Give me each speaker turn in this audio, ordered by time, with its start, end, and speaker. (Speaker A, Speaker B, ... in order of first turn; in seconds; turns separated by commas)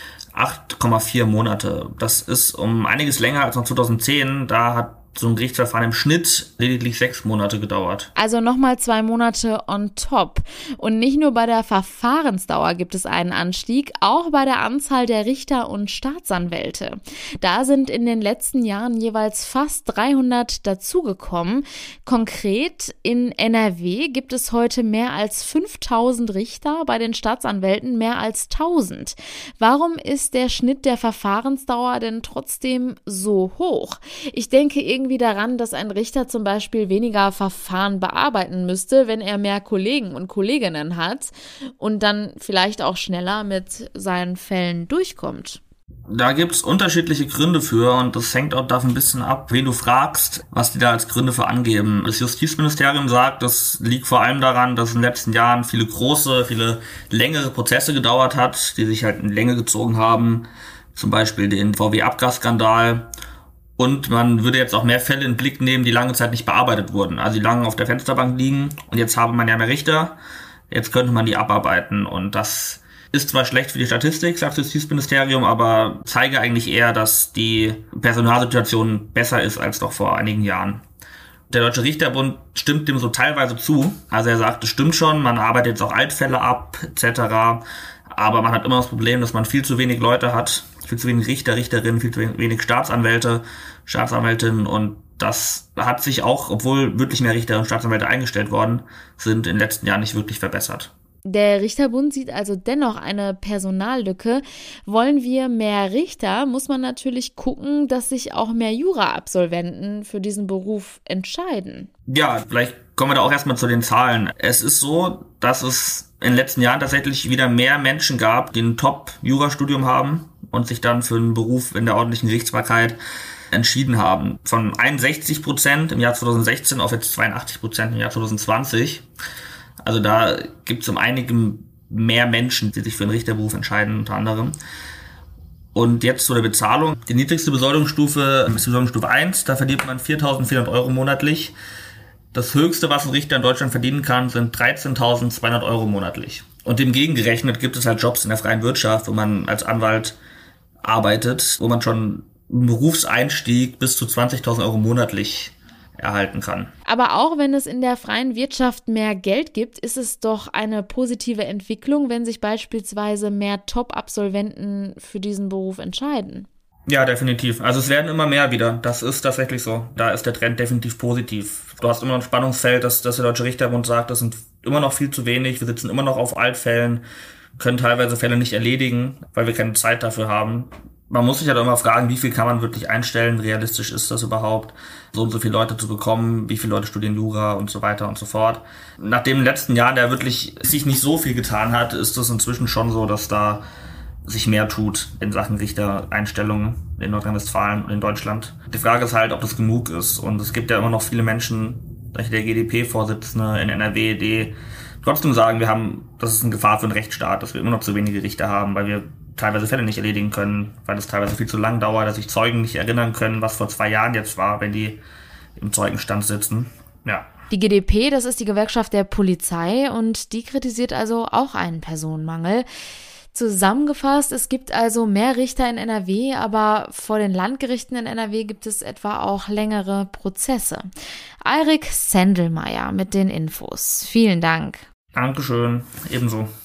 Speaker A: 0.3-8.1, Speaker B: 8.2-45.6, Speaker A: 46.1-63.1, Speaker A: 63.8-70.2, Speaker A: 70.7-80.8, Speaker A: 81.5-100.9, Speaker B: 101.2-111.9, Speaker A: 112.1-123.0, Speaker A: 123.5-129.1, Speaker A: 129.8-134.6, Speaker A: 135.8-141.5, Speaker A: 142.3-150.2, Speaker A: 150.8-156.7, Speaker B: 156.8-166.5, Speaker A: 166.9-177.0, Speaker A: 177.6-193.6, Speaker A: 194.2-215.0, Speaker A: 215.6-217.3, Speaker B: 217.5-222.7, Speaker B: 223.3-230.9, Speaker B: 231.4-234.9, Speaker A: 235.1-236.5